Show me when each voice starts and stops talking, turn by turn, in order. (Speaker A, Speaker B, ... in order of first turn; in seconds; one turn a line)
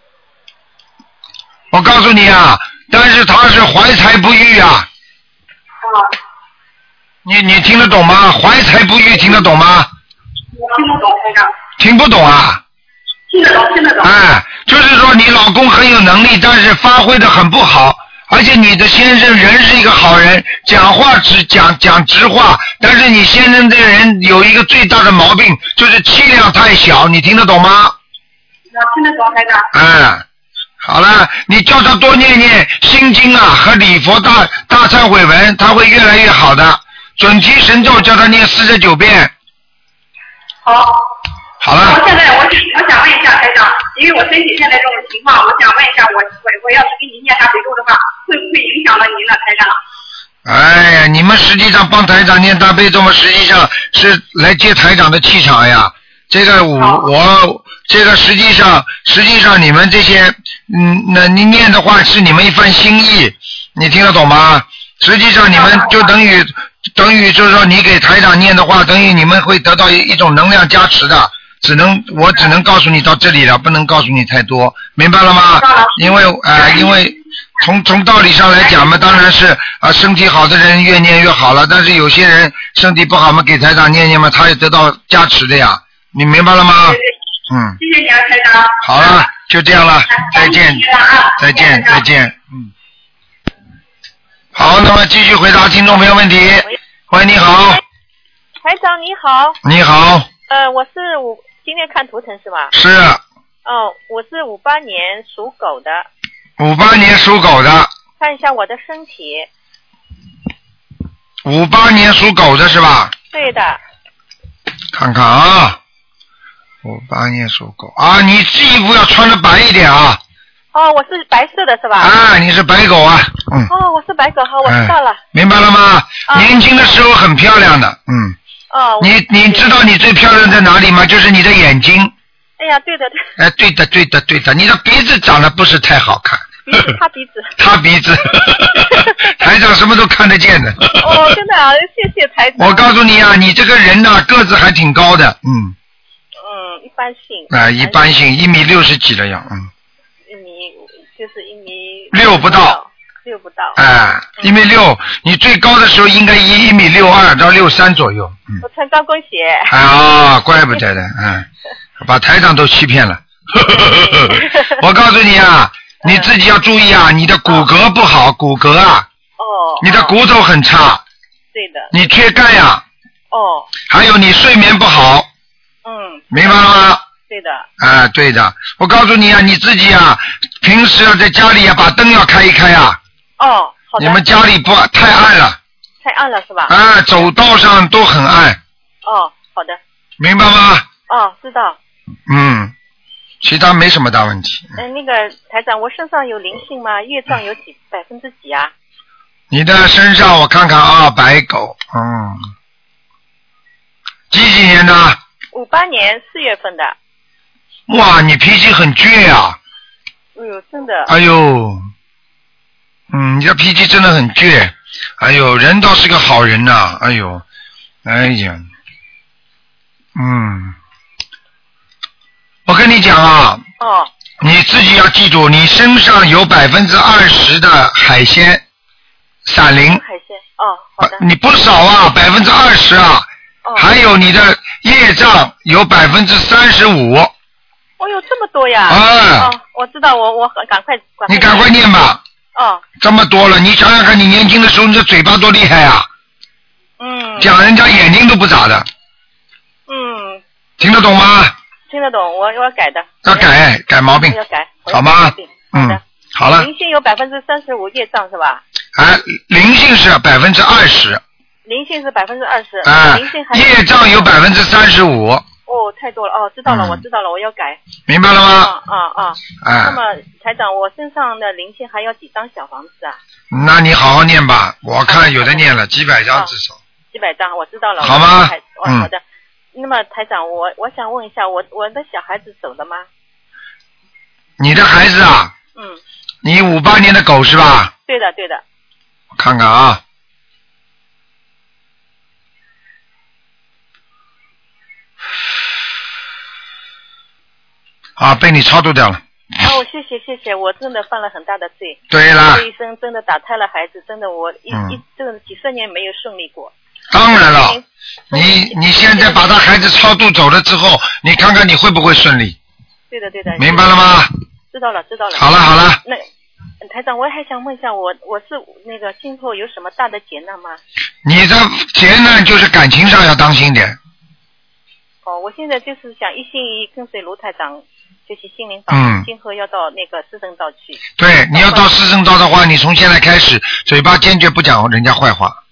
Speaker A: 1.7-4.9
Speaker B: 5.8-6.1
Speaker A: 7.2-9.9
Speaker B: 10.5-11.5
Speaker A: 11.8-12.6
Speaker B: 13.3-14.1
Speaker A: 14.0-27.9
Speaker B: 28.7-29.7
Speaker A: 29.7-30.2
Speaker A: 30.8-39.3
Speaker B: 40.6-41.0
Speaker A: 41.6-42.0
Speaker B: 41.8-49.8
Speaker A: 50.4-87.0
Speaker B: 56.8-57.1
Speaker B: 65.5-66.1
Speaker B: 75.6-77.0
Speaker B: 78.6-78.9
Speaker B: 86.8-87.1
Speaker A: 87.5-87.8
Speaker B: 87.8-89.2
Speaker A: 88.8-90.8
Speaker B: 90.1-92.0
Speaker A: 91.4-92.7
Speaker A: 94.5-97.8
Speaker C: 98.6-99.6
Speaker A: 99.6-100.3
Speaker C: 100.5-102.7
Speaker A: 102.7-103.2
Speaker C: 103.6-106.1
Speaker A: 106.6-107.9
Speaker C: 108.2-109.5
Speaker A: 111.4-113.1
Speaker C: 113.3-113.8
Speaker A: 114.9-115.8
Speaker A: 116.8-120.2
Speaker C: 120.7-122.1
Speaker A: 122.0-123.7
Speaker C: 123.7-125.2
Speaker A: 124.6-128.3
Speaker C: 126.3-126.6
Speaker C: 128.7-129.8
Speaker A: 129.0-132.1
Speaker C: 132.6-133.2
Speaker A: 133.4-136.6
Speaker C: 136.7-137.6
Speaker A: 137.6-141.2
Speaker C: 138.4-139.3
Speaker C: 141.0-143.0
Speaker A: 142.6-145.7
Speaker C: 146.4-148.1
Speaker A: 147.5-149.7
Speaker C: 150.2-153.8
Speaker A: 152.1-152.8
Speaker A: 153.8-158.6
Speaker C: 158.6-159.7
Speaker A: 159.7-161.5
Speaker A: 162.0-169.1
Speaker C: 163.6-164.8
Speaker C: 166.0-166.3
Speaker C: 169.4-170.2
Speaker A: 169.8-171.0
Speaker C: 171.5-172.1
Speaker A: 171.9-172.8
Speaker C: 173.3-173.7
Speaker A: 173.9-175.3
Speaker C: 175.8-177.7
Speaker A: 176.3-177.0
Speaker A: 177.8-183.0
Speaker C: 183.4-184.3
Speaker A: 184.0-185.6
Speaker C: 186.0-187.3
Speaker A: 186.7-188.6
Speaker C: 189.0-189.8
Speaker A: 190.2-190.9
Speaker C: 191.1-191.8
Speaker A: 192.3-192.7
Speaker A: 193.4-194.8
Speaker C: 194.7-198.7
Speaker A: 199.5-202.4
Speaker A: 204.3-205.2
Speaker C: 205.5-206.9
Speaker A: 207.9-209.6
Speaker C: 210.3-211.1
Speaker A: 211.1-211.8
Speaker A: 213.1-217.4
Speaker A: 218.0-218.7
Speaker A: 220.1-220.8
Speaker A: 222.7-223.6
Speaker C: 223.8-224.1
Speaker A: 224.4-228.6
Speaker A: 229.4-230.0
Speaker C: 229.7-231.2
Speaker A: 231.0-237.3
Speaker C: 233.6-233.9
Speaker C: 238.0-241.8
Speaker A: 238.9-239.5
Speaker A: 241.3-242.2
Speaker C: 242.5-242.8
Speaker A: 243.0-246.1
Speaker C: 247.0-247.6
Speaker A: 247.4-248.9
Speaker C: 249.9-250.4
Speaker A: 250.8-251.5
Speaker C: 251.9-258.6
Speaker A: 253.2-254.4
Speaker A: 254.9-256.7
Speaker A: 258.9-261.2
Speaker C: 261.6-264.4
Speaker A: 262.8-265.4
Speaker C: 265.6-267.8
Speaker A: 266.7-267.0
Speaker A: 268.1-268.7
Speaker C: 268.4-273.2
Speaker A: 269.6-270.0
Speaker A: 273.5-276.8
Speaker C: 275.0-275.7
Speaker C: 277.1-279.2
Speaker A: 278.0-279.1
Speaker C: 279.7-283.1
Speaker A: 284.6-285.5
Speaker C: 285.7-286.0
Speaker A: 286.4-287.9
Speaker C: 288.1-288.6
Speaker A: 289.4-290.0
Speaker A: 298.2-299.2
Speaker C: 299.6-309.7
Speaker A: 302.1-302.6
Speaker A: 304.7-305.0
Speaker A: 307.1-307.8
Speaker A: 308.3-312.6
Speaker C: 313.1-314.1
Speaker A: 313.6-314.3
Speaker C: 314.7-316.2
Speaker A: 315.3-316.0
Speaker C: 316.8-320.8
Speaker A: 321.2-324.0
Speaker C: 325.2-331.9
Speaker A: 328.9-329.2
Speaker A: 331.2-335.6